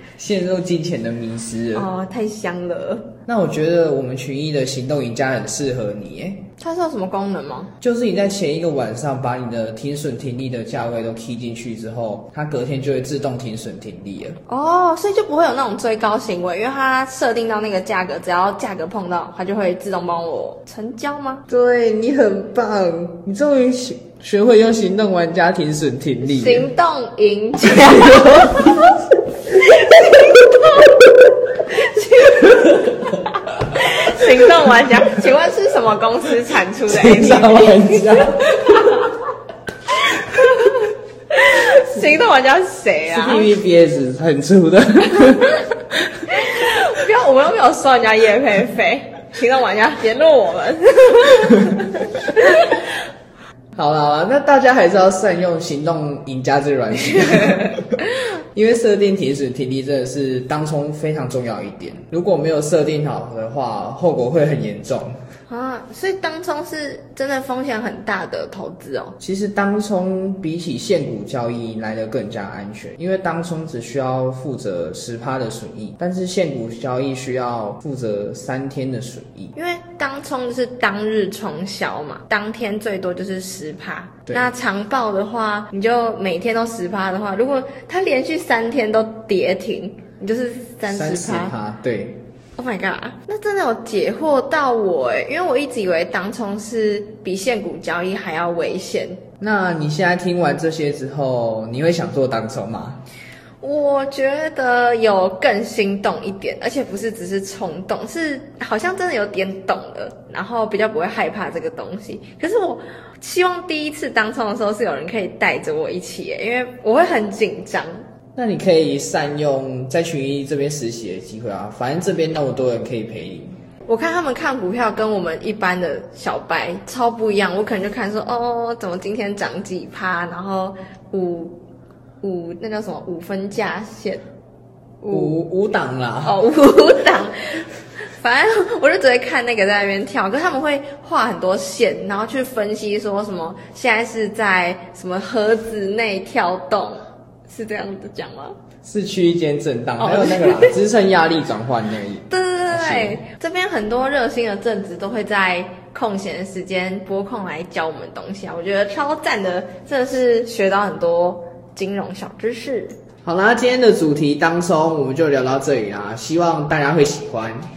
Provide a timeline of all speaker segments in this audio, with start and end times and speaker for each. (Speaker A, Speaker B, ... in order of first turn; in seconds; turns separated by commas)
Speaker A: 0.2-1.9, Speaker B: 1.7-3.1, Speaker A: 3.2-6.5, Speaker B: 6.6-7.7, Speaker A: 7.8-14.4, Speaker B: 14.5-21.4, Speaker A: 21.5-26.7, Speaker B: 26.2-28.9, Speaker B: 29.5-38.8, Speaker A: 36.9-38.9, Speaker B: 39.9-43.5, Speaker A: 43.1-45.7, Speaker B: 46.3-52.9, Speaker A: 53.8-58.0, Speaker B: 57.3-57.6, Speaker A: 58.5-65.2, Speaker B: 65.5-69.2, Speaker A: 69.2-79.5, Speaker B: 79.5-91.5, Speaker A: 90.9-92.2, Speaker B: 92.6-99.2, Speaker A: 99.4-103.0, Speaker B: 103.6-118.0, Speaker A: 118.3-123.5, Speaker B: 123.8-131.6, Speaker B: 132.2-134.2, Speaker B: 135.0-135.3, Speaker A: 135.1-136.4, Speaker B: 136.2-148.6, Speaker A: 148.8-153.2, Speaker B: 150.0-150.8, Speaker B: 152.3-163.0, Speaker A: 163.2-167.6